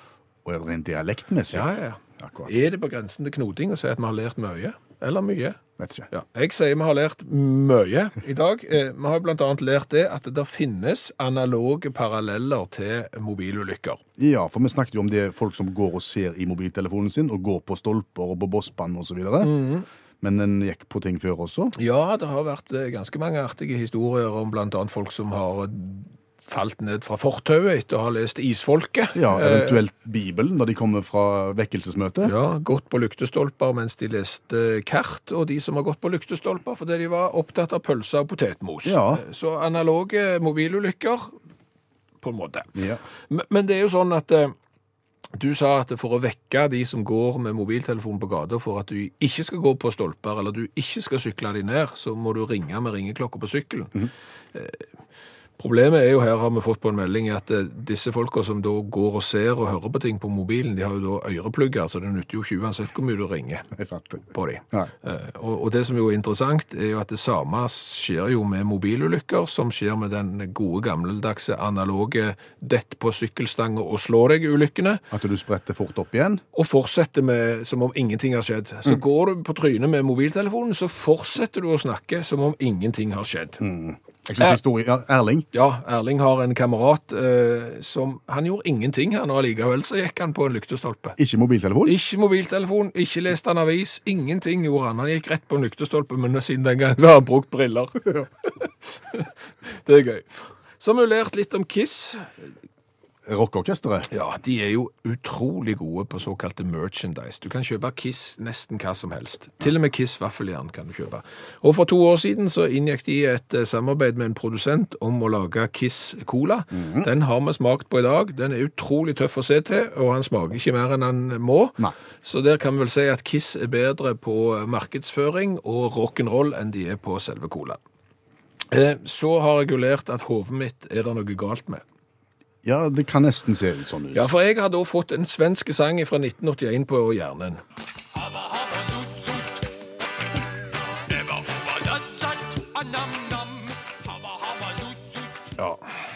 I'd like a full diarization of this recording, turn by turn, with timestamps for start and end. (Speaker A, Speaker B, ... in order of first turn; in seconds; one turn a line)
Speaker A: 0.5-2.5
Speaker B: 1.5-5.6
Speaker A: 5.8-6.1
Speaker B: 6.1-14.0
Speaker A: 14.2-19.6
Speaker B: 19.4-19.9
Speaker A: 20.2-21.7
Speaker B: 21.8-29.8
Speaker A: 29.1-32.3
Speaker B: 32.2-41.4
Speaker A: 38.9-39.2
Speaker B: 42.2-42.8
Speaker A: 42.8-43.0
Speaker B: 43.3-44.5
Speaker B: 45.4-54.0
Speaker B: 54.5-54.9
Speaker B: 55.6-63.7
Speaker A: 63.8-64.9
Speaker B: 64.3-75.0
Speaker A: 75.1-76.4
Speaker B: 76.5-83.6
Speaker A: 83.6-85.5
Speaker B: 85.5-91.2
Speaker A: 91.2-92.0
Speaker B: 91.8-102.5
Speaker A: 103.3-104.1
Speaker B: 104.1-127.8
Speaker A: 116.7-117.1
Speaker B: 128.7-131.8
Speaker A: 132.6-134.3
Speaker B: 134.1-137.6
Speaker B: 138.5-139.4
Speaker B: 141.1-143.8
Speaker B: 144.4-145.8